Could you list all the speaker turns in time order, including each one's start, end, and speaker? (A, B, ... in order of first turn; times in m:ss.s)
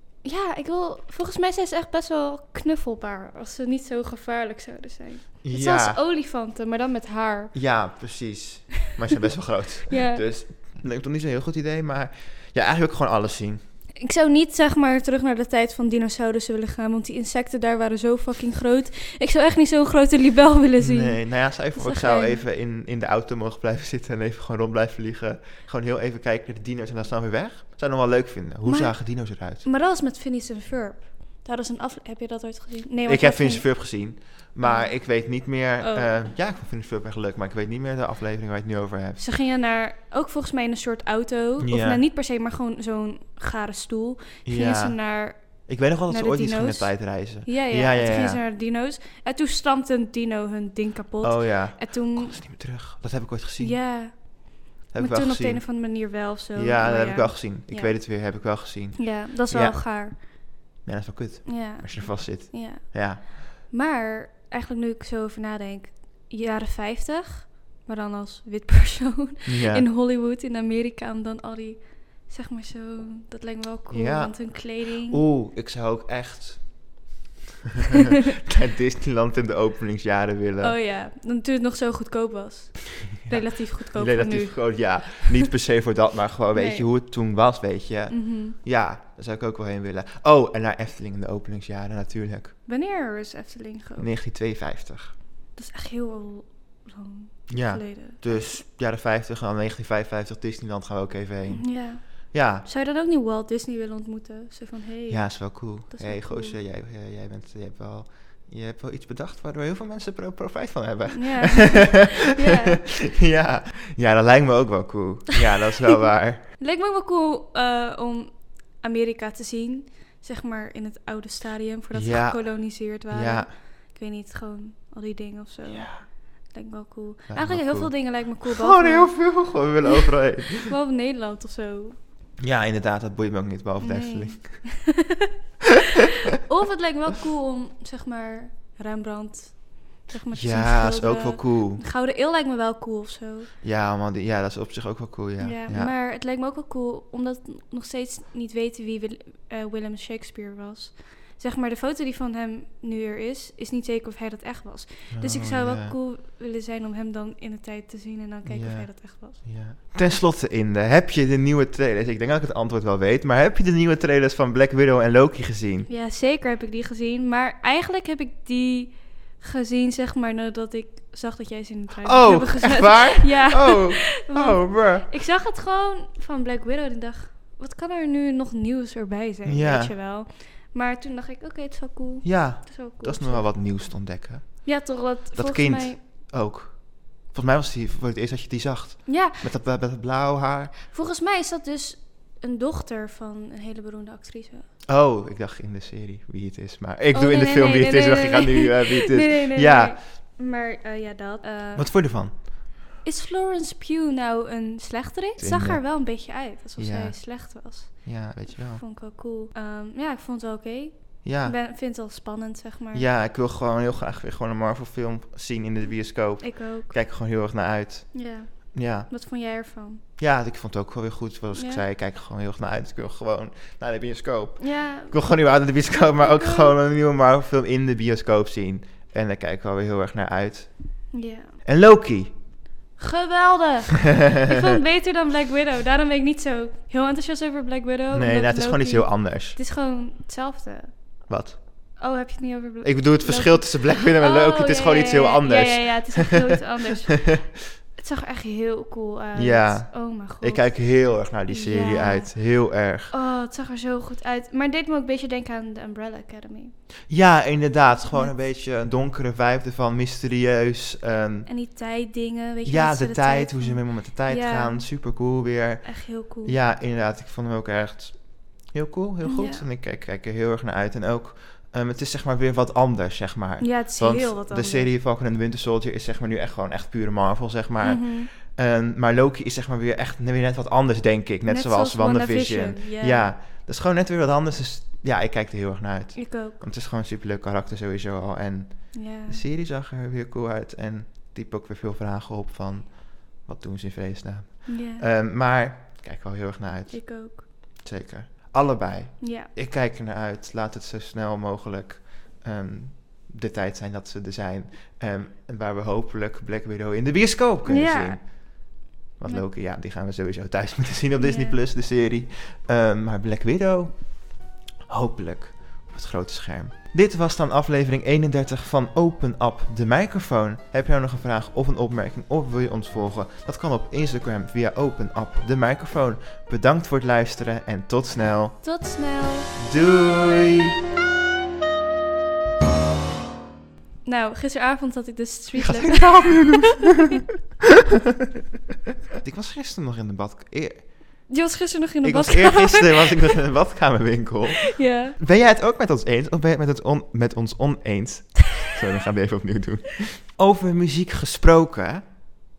0:00.2-0:07.5 A
0:05.4-0:06.0 B
0:07.5-0:13.6 B
0:09.9-0:10.2 A
0:14.0-0:22.4 A
0:20.8-0:29.6 B
0:28.7-0:29.0 A
0:29.6-0:33.8 A
0:33.1-0:39.2 B
0:34.6-0:34.9 A
0:35.8-0:36.1 A
0:39.2-0:52.4 A
0:41.6-0:42.0 B
0:44.4-0:48.4 B
0:51.2-0:53.8 B
0:53.6-0:57.9 A
0:54.9-0:55.9 B
0:56.6-1:00.3 B
0:59.0-1:00.2 A
1:00.8-1:03.2 B
1:01.5-1:15.2 A
1:09.4-1:09.9 B
1:13.9-1:17.0 B
1:18.4-1:20.8 B
1:20.6-1:25.4 A
1:23.2-1:32.6 B
1:26.5-1:26.9 A
1:28.1-1:28.6 A
1:32.7-1:34.1 A
1:34.0-1:35.2 B
1:35.6-1:38.5 A
1:37.5-1:42.7 B
1:41.5-1:46.6 A
1:45.1-1:56.5 B
1:51.1-1:52.8 A
1:56.6-2:09.2 A
2:01.9-2:03.5 B
2:05.7-2:06.0 B
2:07.3-2:10.7 B
2:09.9-2:12.0 A
2:12.4-2:14.7 B
2:13.8-2:15.3 A
2:16.4-2:23.5 A
2:20.3-2:21.8 B
2:23.6-2:25.9 B
2:25.4-2:39.5 A
2:35.1-2:36.0 B
2:38.5-2:45.9 B
2:45.9-3:03.5 A
2:52.0-2:55.1 B
2:59.4-2:59.9 B
3:02.2-3:10.8 B
3:04.6-3:06.0 A
3:09.1-3:09.4 A
3:10.9-3:14.6 A
3:14.9-3:20.0 B
3:17.1-3:21.9 A
3:21.8-3:22.3 B
3:23.0-3:33.1 A
3:25.4-3:25.8 B
3:26.8-3:28.8 B
3:31.2-3:31.6 B
3:32.9-3:38.2 B
3:36.4-3:37.0 A
3:38.1-3:40.0 A
3:38.7-3:39.1 B
3:40.2-3:51.0 B
3:41.5-3:41.8 A
3:44.6-3:45.2 A
3:46.2-3:46.7 A
3:51.1-3:51.6 A
3:51.6-3:52.3 B
3:53.0-4:00.9 A
3:58.1-3:59.6 B
4:01.3-4:02.0 B
4:02.0-4:10.8 A
4:02.8-4:06.6 B
4:09.4-4:13.1 B
4:11.5-4:12.4 A
4:13.1-4:16.7 A
4:17.1-4:21.5 B
4:21.5-4:24.8 A
4:22.6-5:14.2 B
4:25.8-4:26.6 A
4:29.2-4:29.6 A
4:33.6-4:34.9 A
4:37.8-4:38.3 A
4:41.5-4:43.3 A
4:46.2-4:46.6 A
4:48.9-4:49.4 A
4:54.7-4:55.0 A
4:56.9-4:57.4 A
4:59.2-4:59.5 A
5:07.7-5:08.2 A
5:11.2-5:11.6 A
5:14.9-5:28.6 B
5:28.6-5:29.6 A
5:29.6-5:30.8 B
5:34.0-5:37.1 A
5:35.6-5:37.2 B
5:39.2-5:40.9 B
5:41.3-5:43.3 A
5:42.0-5:52.0 B
5:44.6-5:45.2 A